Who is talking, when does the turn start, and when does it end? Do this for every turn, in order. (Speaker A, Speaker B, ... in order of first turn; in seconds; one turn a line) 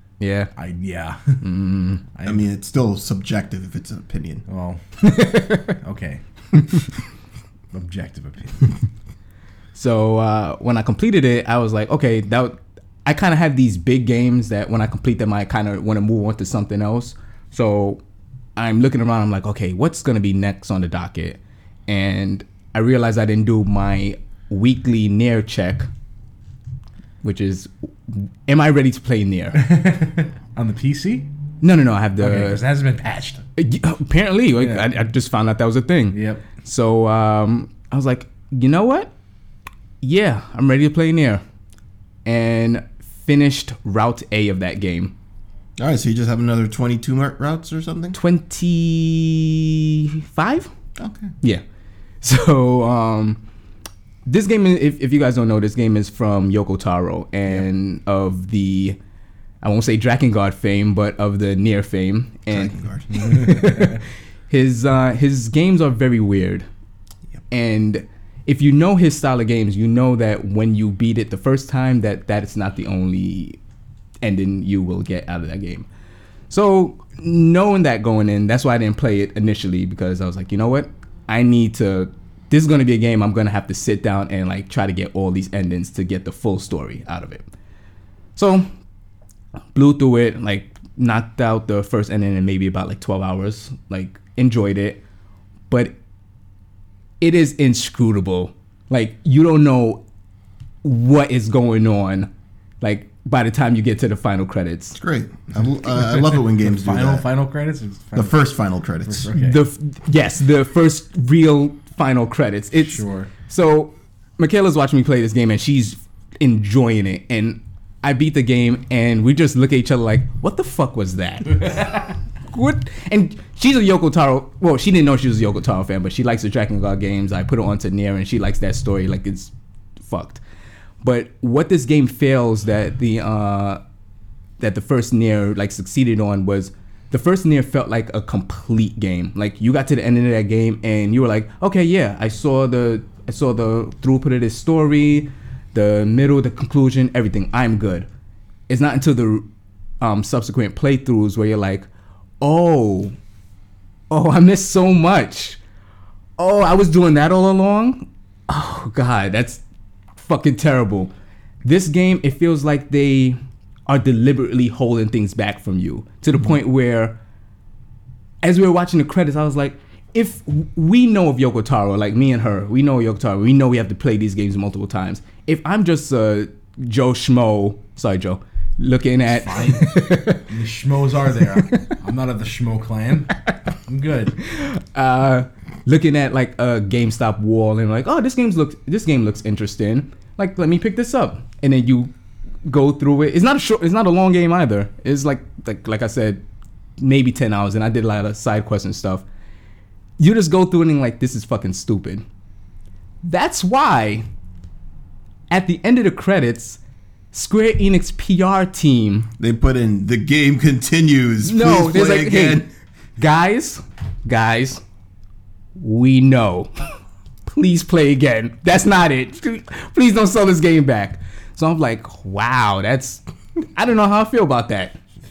Speaker A: 0.2-0.5
Speaker B: 0.6-1.4
Speaker A: 1.4-2.0
Speaker B: 2.1-2.4
Speaker C: 2.2-4.4
Speaker B: 4.5-4.8
Speaker A: 5.0-5.7
Speaker B: 5.7-6.2
Speaker B: 7.7-8.7
Speaker A: 9.7-18.0
Speaker A: 18.6-25.9
Speaker A: 27.2-29.6
Speaker B: 29.5-31.3
Speaker A: 31.6-32.6
Speaker B: 32.2-33.4
Speaker A: 33.6-39.1
Speaker B: 34.6-34.9
Speaker B: 36.1-36.4
Speaker A: 40.0-41.4
Speaker A: 42.2-45.1
Speaker C: 45.8-48.2
Speaker A: 48.1-50.7
Speaker C: 51.0-51.3
Speaker A: 52.2-53.4
Speaker A: 54.2-59.0
Speaker A: 59.6-66.7
Speaker C: 62.5-63.4
Speaker A: 67.5-73.6
Speaker A: 74.2-75.8
Speaker A: 76.5-87.5
Speaker A: 88.3-88.7
Speaker A: 89.7-95.0
Speaker A: 95.7-95.9
Speaker A: 97.2-100.0
Speaker A: 100.8-102.3
Speaker A: 102.8-105.0
Speaker C: 105.0-107.3
Speaker B: 105.8-108.4
Speaker C: 108.2-109.3
Speaker B: 109.0-109.6
Speaker A: 109.4-129.5
Speaker B: 112.7-113.3
Speaker A: 130.0-130.4
Speaker A: 131.0-133.8
Speaker A: 134.6-148.1
Speaker A: 148.7-149.4
Speaker A: 150.0-151.9
Speaker A: 152.4-153.1
Speaker A: 154.1-155.6
Speaker A: 156.4-159.6
Speaker A: 160.2-161.1
Speaker A: 161.6-167.2
Speaker A: 168.4-180.4
Speaker B: 179.2-184.3
Speaker A: 184.4-192.1
Speaker A: 192.6-196.4
Speaker A: 197.0-199.2
Speaker A: 200.2-202.2
Speaker A: 203.2-204.2
Speaker A: 205.5-206.8
Speaker A: 207.3-209.3
Speaker C: 209.4-212.7
Speaker A: 211.4-212.7
Speaker A: 213.2-214.8
Speaker A: 215.8-216.9
Speaker A: 217.4-223.2
Speaker A: 223.8-225.0